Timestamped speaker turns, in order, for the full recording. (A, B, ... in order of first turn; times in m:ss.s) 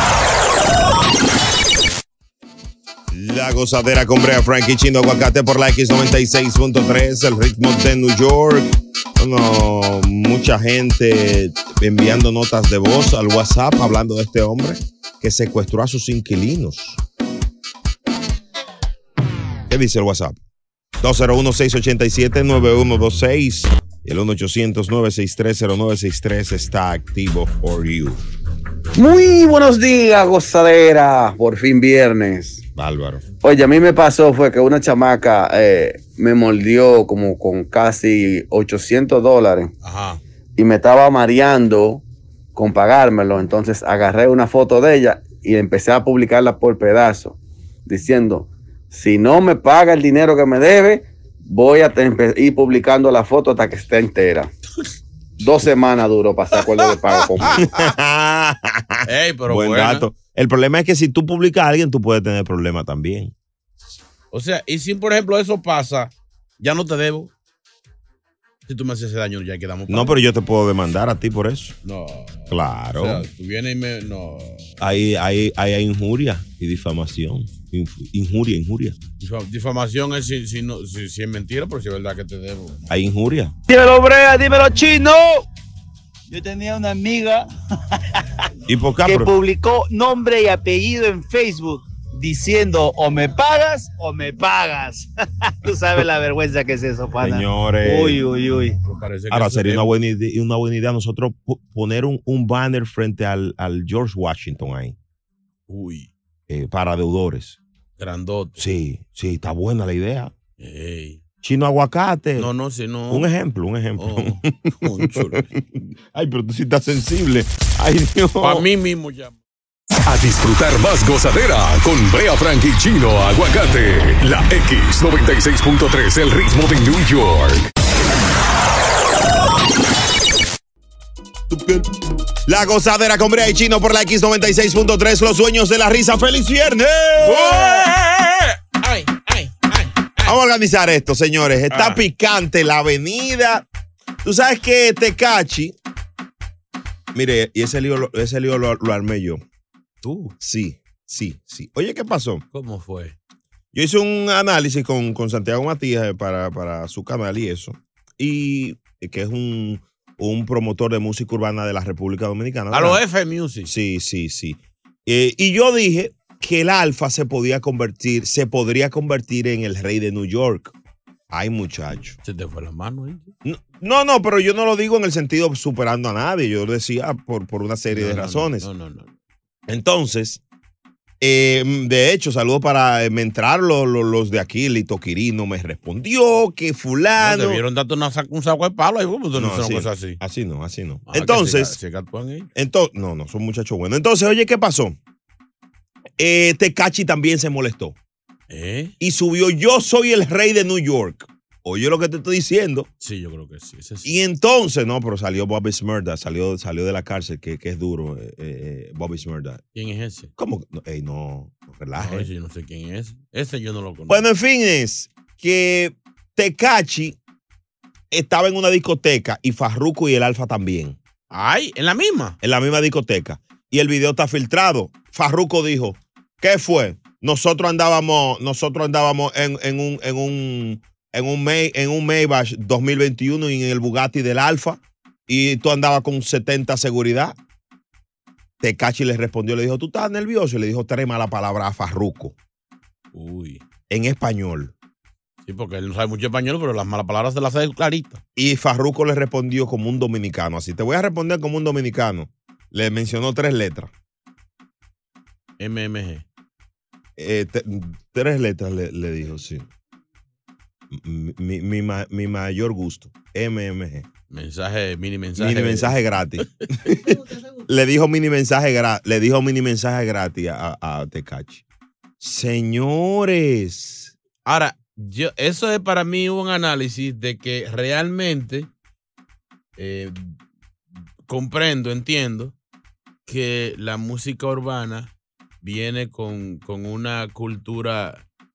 0:03.1-0:17.0 A
0:19.7-0:20.4 A
0:21.0-0:28.2 A
0:29.0-0:32.6 B
0:32.8-0:33.2 A
0:33.4-0:39.7 B
0:39.8-0:40.2 C
0:40.6-0:42.0 B
0:42.5-0:54.5 B
0:55.4-0:57.6 B
0:57.6-1:03.3 A
0:59.0-1:00.1 C
1:04.3-1:07.3 C
1:08.7-1:10.2 C
1:09.9-1:11.8 A
1:11.8-1:14.7 C
1:12.5-1:13.2 A
1:14.8-1:19.0 A
1:19.2-1:22.8 C
1:22.9-1:23.5 A
1:23.7-1:25.4 D
1:26.3-1:27.4 D
1:28.7-1:29.3 A
1:29.0-1:38.7 D
1:37.2-1:38.2 A
1:38.8-1:39.9 C
1:39.3-1:45.0 A
1:45.7-1:46.1 C
1:46.5-1:47.6 A
1:48.0-1:48.6 C
1:48.6-1:50.3 A
1:50.6-1:51.2 C
1:51.4-1:52.5 A
1:52.4-1:53.3 C
1:53.1-1:58.6 A
1:54.0-1:55.4 C
1:58.4-1:59.4 C
2:00.0-2:07.7 E
2:11.5-2:11.9 A
2:12.4-2:17.9 A
2:17.2-2:20.3 C
2:20.2-2:23.6 A
2:21.7-2:22.0 C
2:24.2-2:25.7 A
2:27.1-2:29.4 A
2:30.0-2:30.3 C
2:30.4-2:32.4 A
2:32.5-2:33.1 C
2:33.7-2:43.0 A
2:42.7-2:43.7 C
2:43.6-2:50.7 A
2:51.3-2:52.2 A
2:52.2-2:53.3 C
2:53.4-2:58.7 A
2:57.9-2:59.1 C
2:59.7-3:00.4 A
3:01.2-3:07.6 A
3:07.2-3:10.2 C
3:09.3-3:11.8 A
3:11.1-3:12.5 C
3:12.5-3:15.0 A
3:16.2-3:18.0 A
3:18.5-3:18.9 C
3:19.0-3:22.9 A
3:23.0-3:24.1 C
3:24.0-3:29.6 A
3:29.7-3:30.3 C
3:30.4-3:32.3 A
3:32.0-3:34.2 C
3:34.1-3:37.2 A
3:38.1-3:41.0 A
3:41.3-3:42.3 C
3:42.4-3:57.4 A
3:58.6-4:02.3 A
4:03.1-4:03.6 C
4:03.9-4:04.7 A
4:05.4-4:08.2 C
4:08.4-4:13.9 A
4:15.6-4:16.2 C
4:17.2-4:19.6 A
4:20.9-4:24.1 A
4:24.3-4:26.0 C
4:25.4-4:31.6 A
4:32.2-4:34.1 A
4:34.4-4:38.7 C
4:39.8-4:40.4 C
4:41.3-4:42.5 C
4:43.2-4:48.2 C